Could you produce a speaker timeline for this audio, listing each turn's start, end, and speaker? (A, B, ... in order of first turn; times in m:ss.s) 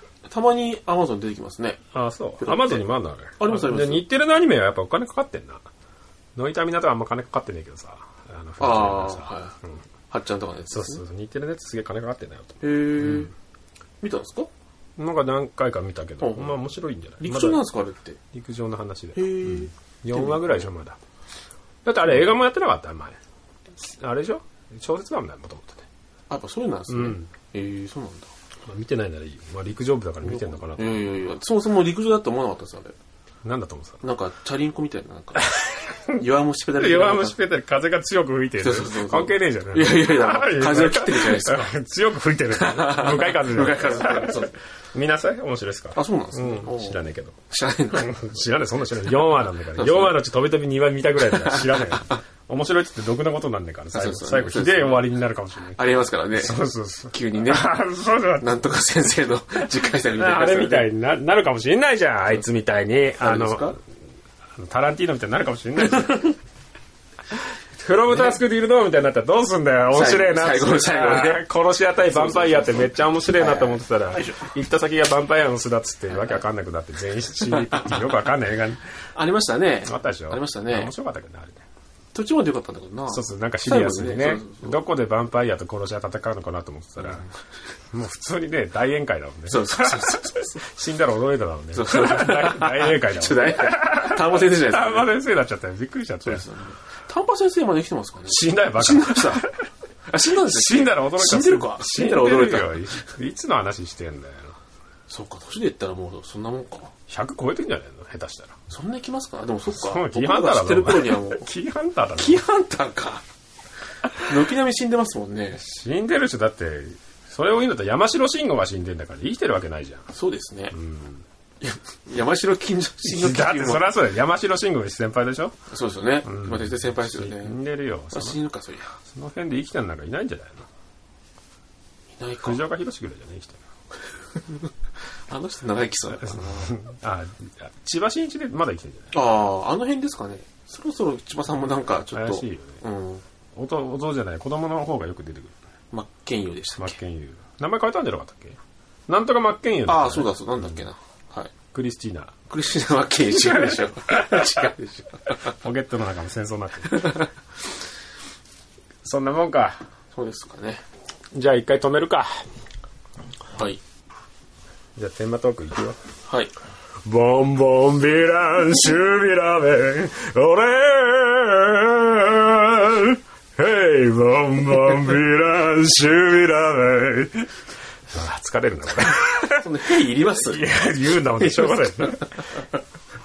0:00.3-0:01.8 A
0:01.9-0:05.7 B
0:02.4-0:02.9 A
0:03.4-0:04.1 A
0:06.4-0:09.8 B
0:08.6-0:09.6 A
0:10.1-0:11.0 A
0:10.7-0:13.3 B
0:12.6-0:13.3 A
0:14.0-0:14.5 A
0:15.0-0:17.6 B
0:16.2-0:16.6 A
0:17.2-0:18.2 A
0:18.3-0:21.0 B
0:19.2-0:20.6 A
0:21.8-0:23.2 B
0:23.8-0:25.9 B
0:26.3-0:28.3 A
0:26.9-0:27.3 B
0:28.7-0:31.1 B
0:30.3-0:33.0 A
0:33.4-0:34.0 B
0:34.0-0:37.4 A
0:35.4-0:36.2 B
0:36.8-0:47.4 B
0:38.6-0:41.7 A
0:42.5-0:44.6 A
0:46.0-0:48.2 A
0:47.9-0:55.8 B
0:49.7-0:50.2 A
0:51.4-0:51.9 A
0:53.9-0:55.1 A
0:55.7-0:57.7 A
0:56.4-0:58.5 B
0:58.4-1:00.9 A
1:00.1-1:03.7 B
1:03.2-1:03.8 A
1:04.6-1:06.4 B
1:07.8-1:18.8 B
1:09.9-1:11.5 A
1:12.0-1:14.5 A
1:16.1-1:16.4 A
1:19.2-1:20.9 A
1:19.8-1:21.6 B
1:22.1-1:24.8 A
1:23.1-1:27.2 B
1:27.0-1:27.3 A
1:27.9-1:36.5 B
1:29.5-1:30.7 A
1:31.7-1:35.1 A
1:36.2-1:39.5 A
1:38.3-1:39.5 B
1:40.1-1:43.0 A
1:40.4-1:44.6 B
1:45.1-1:46.9 A
1:47.1-1:48.6 B
1:48.7-1:51.5 A
1:49.7-1:52.4 B
1:52.2-1:53.2 A
1:54.2-1:55.6 A
1:55.6-2:00.1 B
2:00.1-2:00.8 A
2:00.7-2:01.2 B
2:01.6-2:03.9 A
2:03.0-2:05.6 B
2:05.7-2:07.6 A
2:06.2-2:08.4 B
2:08.1-2:09.0 A
2:09.0-2:10.7 B
2:12.2-2:12.6 A
2:12.4-2:13.6 B
2:14.4-2:14.7 A
2:15.3-2:16.8 A
2:16.2-2:19.1 B
2:19.1-2:23.2 A
2:22.1-2:22.8 B
2:23.5-2:25.5 B
2:25.9-2:27.0 A
2:26.8-2:30.3 B
2:29.9-2:31.5 A
2:31.7-2:32.3 B
2:32.5-2:35.5 A
2:33.4-2:34.6 B
2:35.5-2:37.2 B
2:37.0-2:37.3 A
2:39.0-2:39.8 B
2:40.1-2:40.8 A
2:41.3-2:42.5 B
2:43.5-2:43.8 A
2:45.0-2:46.0 B
2:46.3-2:46.5 A
2:47.0-2:57.5 B
2:58.1-2:59.7 B
2:59.5-3:00.7 A
3:00.4-3:02.3 B
3:01.3-3:02.5 A